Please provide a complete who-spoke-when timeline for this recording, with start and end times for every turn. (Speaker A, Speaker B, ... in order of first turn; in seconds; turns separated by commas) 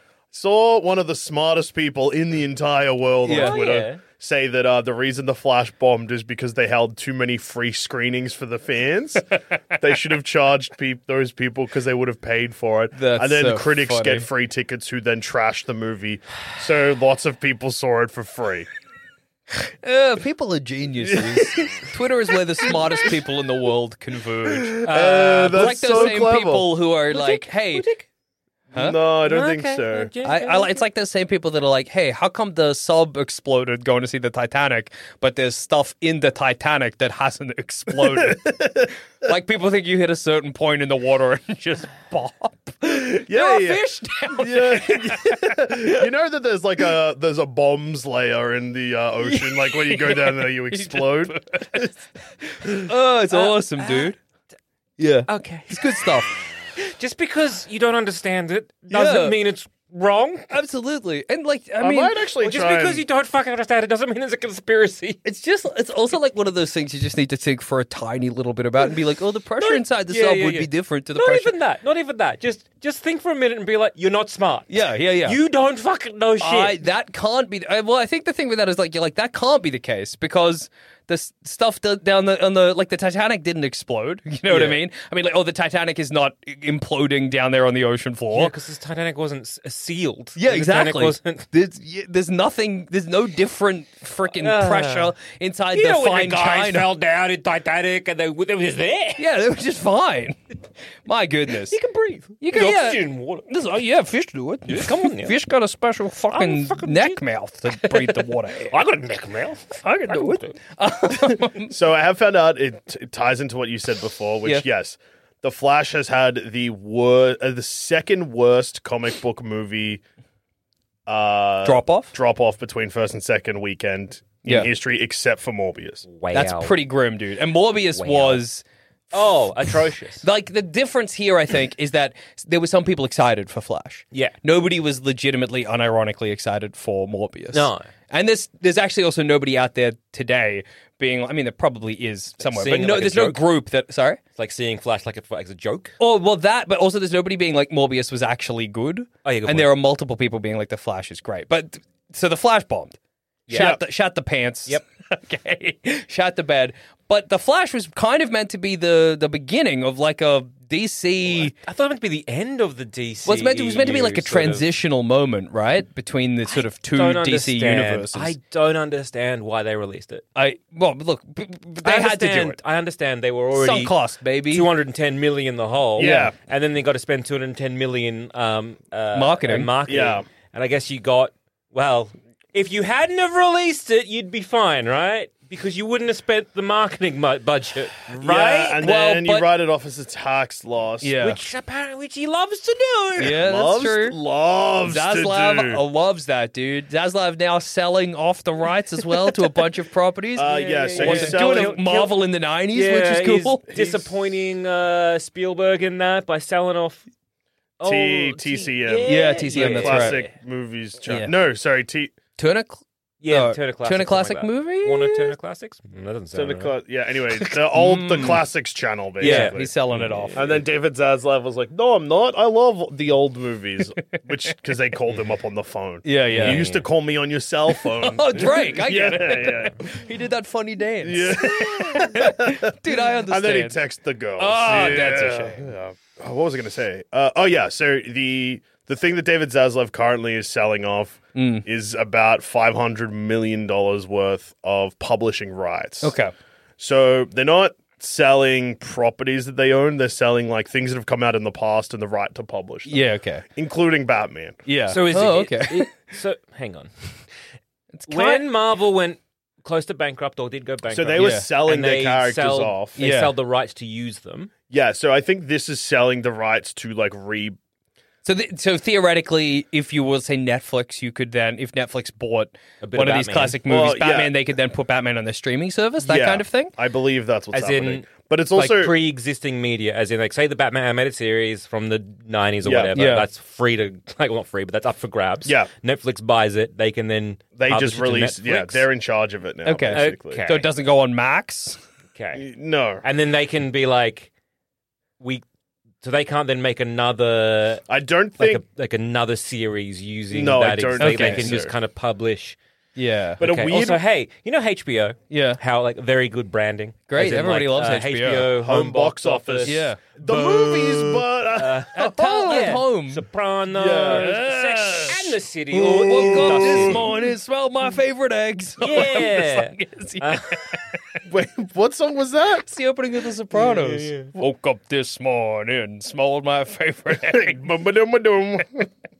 Speaker A: 0.3-18.7, Speaker B: 3.2-3.8, Speaker C: 3.3-4.0, Speaker B: 12.9-14.3, Speaker B: 19.5-24.8, Speaker A: 21.1-21.8, Speaker A: 22.7-23.0, Speaker A: 24.5-26.7, Speaker C: 24.8-26.2, Speaker B: 25.5-27.9, Speaker C: 27.1-28.1, Speaker A: 28.7-30.1, Speaker C: 29.2-30.8, Speaker B: 30.2-46.0, Speaker A: 38.0-38.9, Speaker A: 43.2-51.9, Speaker B: 49.2-51.9, Speaker B: 52.5-54.1, Speaker C: 53.3-54.1, Speaker B: 55.0-56.3, Speaker C: 55.3-56.0, Speaker C: 56.8-60.5, Speaker B: 58.9-59.4, Speaker B: 60.5-62.2, Speaker A: 61.8-63.0, Speaker C: 62.4-65.2, Speaker B: 65.2-71.5, Speaker C: 69.6-74.7, Speaker B: 74.7-75.4, Speaker C: 75.2-76.8, Speaker B: 76.4-88.5, Speaker C: 84.5-84.8, Speaker C: 88.3-91.4, Speaker B: 90.4-96.9, Speaker C: 94.4-95.1, Speaker C: 95.7-99.2, Speaker B: 99.2-100.3, Speaker B: 101.0-101.8, Speaker C: 101.7-103.5, Speaker B: 102.4-108.8, Speaker C: 104.7-105.3, Speaker C: 106.3-107.2, Speaker C: 107.7-110.5, Speaker B: 109.8-111.7, Speaker A: 111.7-120.0, Speaker A: 121.1-126.0, Speaker B: 121.6-122.1, Speaker B: 124.4-124.7, Speaker C: 126.1-126.8, Speaker B: 126.3-128.6, Speaker C: 127.9-128.4, Speaker C: 129.1-130.2, Speaker B: 130.2-144.2, Speaker C: 137.5-137.9, Speaker C: 142.4-143.4, Speaker C: 144.3-145.9, Speaker B: 146.0-152.9, Speaker C: 149.2-149.7, Speaker C: 153.5-153.7, Speaker B: 153.5-161.5, Speaker A: 153.5-153.8, Speaker C: 161.3-164.7, Speaker B: 163.2-168.3, Speaker C: 166.5-170.2, Speaker B: 170.3-172.6, Speaker C: 171.8-173.9, Speaker B: 173.5-174.7, Speaker C: 174.5-188.8, Speaker A: 176.0-176.3, Speaker B: 176.0-176.3, Speaker B: 179.1-179.7, Speaker A: 179.9-180.2, Speaker A: 188.1-191.1, Speaker B: 188.8-189.5, Speaker B: 191.0-191.4, Speaker C: 191.2-193.4, Speaker B: 193.2-194.2, Speaker A: 193.3-195.8, Speaker B: 194.8-203.6, Speaker A: 200.3-201.8, Speaker C: 200.4-202.2, Speaker C: 202.7-207.0, Speaker A: 203.7-204.1, Speaker C: 207.8-210.3, Speaker A: 207.8-212.1, Speaker B: 209.1-210.2, Speaker B: 211.1-211.3, Speaker B: 212.4-215.3, Speaker C: 213.2-216.8, Speaker A: 216.3-219.7, Speaker B: 217.7-218.4, Speaker B: 219.2-220.5, Speaker C: 219.2-220.6, Speaker A: 220.3-229.8, Speaker B: 226.0-226.7, Speaker C: 226.3-226.8, Speaker B: 227.7-233.8, Speaker A: 231.0-246.1, Speaker B: 234.4-235.7, Speaker B: 241.3-241.6, Speaker B: 246.0-246.3, Speaker A: 246.8-253.0, Speaker B: 252.9-253.4, Speaker A: 253.6-254.6, Speaker B: 254.7-255.9, Speaker C: 254.9-256.9, Speaker B: 257.9-258.4, Speaker C: 258.1-264.5, Speaker A: 260.9-263.0, Speaker B: 261.2-261.5, Speaker B: 263.0-263.3, Speaker A: 264.7-267.6, Speaker B: 268.2-276.7, Speaker C: 272.8-273.6, Speaker A: 273.7-274.3, Speaker A: 276.0-278.9, Speaker C: 277.5-288.9, Speaker A: 282.6-282.9, Speaker B: 282.9-283.2, Speaker A: 285.4-285.7, Speaker A: 287.6-290.4, Speaker B: 289.6-291.8, Speaker C: 289.9-290.7, Speaker C: 292.1-292.4, Speaker A: 292.4-293.0, Speaker C: 293.0-294.3, Speaker C: 296.0-297.9, Speaker A: 297.9-298.6, Speaker C: 298.4-302.6, Speaker A: 300.3-301.7, Speaker B: 301.0-301.6, Speaker B: 302.9-303.4, Speaker A: 303.4-304.0, Speaker C: 303.4-317.1, Speaker B: 305.3-305.6, Speaker B: 307.1-308.5, Speaker A: 308.5-312.8, Speaker B: 309.6-310.0, Speaker B: 311.9-313.2, Speaker A: 313.7-314.4, Speaker B: 314.0-320.8, Speaker A: 315.8-317.1, Speaker C: 318.8-320.8, Speaker A: 321.3-322.7, Speaker B: 322.6-327.6, Speaker C: 323.9-324.3, Speaker A: 327.1-328.9